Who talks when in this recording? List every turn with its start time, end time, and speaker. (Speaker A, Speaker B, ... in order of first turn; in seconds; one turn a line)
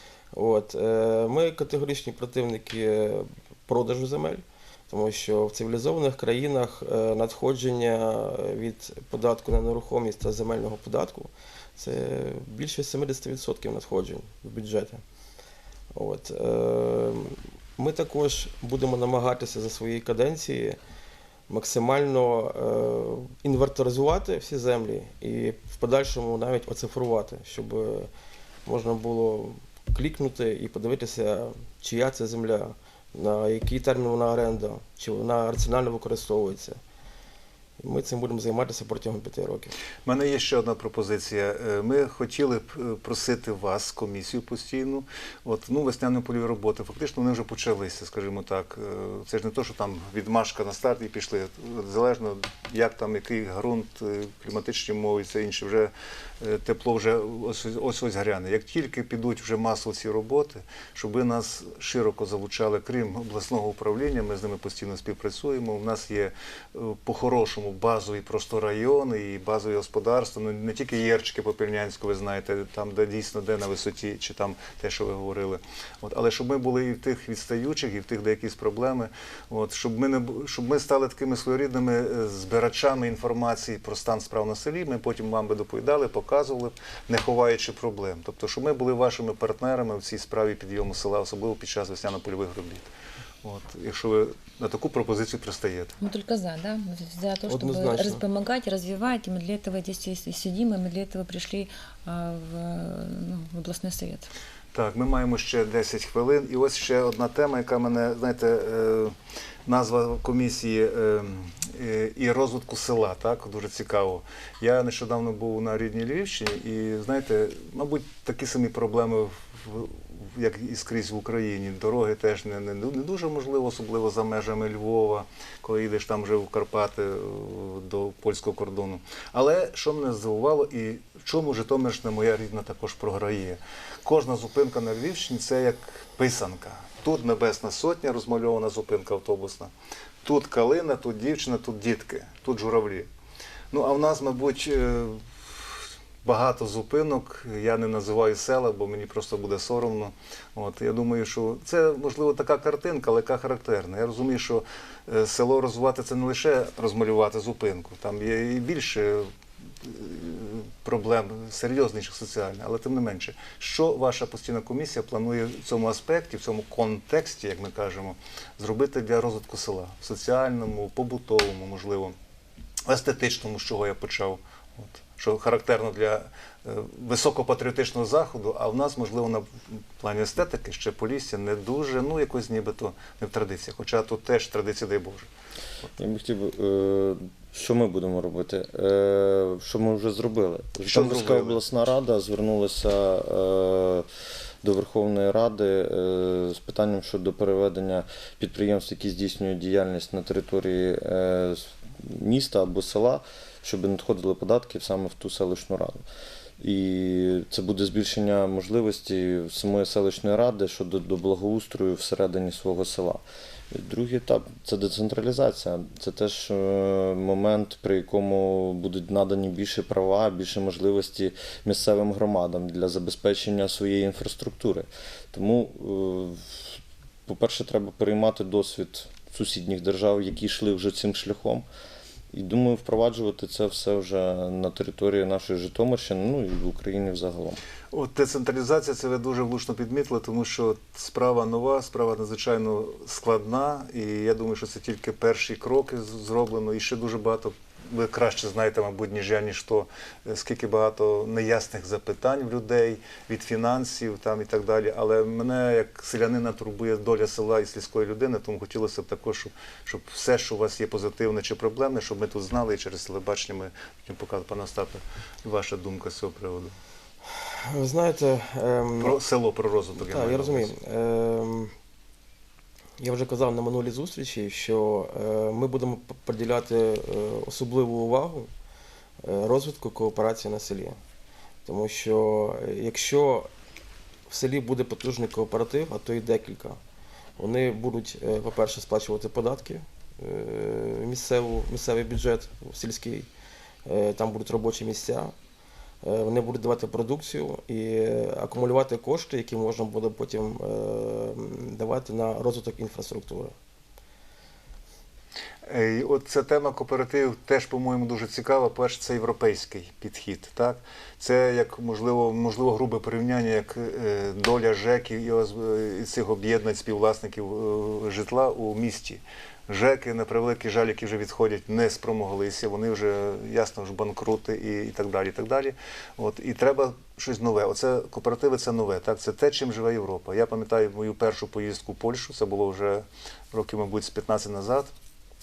Speaker A: 0.3-15.0
Speaker A: 15.9-20.8
Speaker A: 21.5-28.1
Speaker A: 28.6-36.8
Speaker A: 37.8-39.7
Speaker B: 40.1-92.9
Speaker B: 93.4-96.0
Speaker C: 96.0-104.3
Speaker A: 97.5-98.2
Speaker B: 104.7-109.2
Speaker B: 109.7-139.7
Speaker B: 140.2-143.1
Speaker B: 143.7-145.7
Speaker B: 146.2-159.3
Speaker B: 159.8-172.2
Speaker B: 172.9-185.3
Speaker D: 186.0-194.1
Speaker B: 190.8-191.6
Speaker D: 194.6-206.0
Speaker D: 206.6-231.7
Speaker D: 232.3-237.6
Speaker B: 237.9-266.8
Speaker A: 267.3-269.2
Speaker B: 269.0-270.7
Speaker A: 270.0-271.7
Speaker A: 273.0-278.5
Speaker A: 279.2-281.0
Speaker A: 281.7-283.5
Speaker A: 284.3-286.8
Speaker A: 287.4-293.3
Speaker A: 293.9-295.3
Speaker A: 296.0-303.5
Speaker B: 305.7-334.9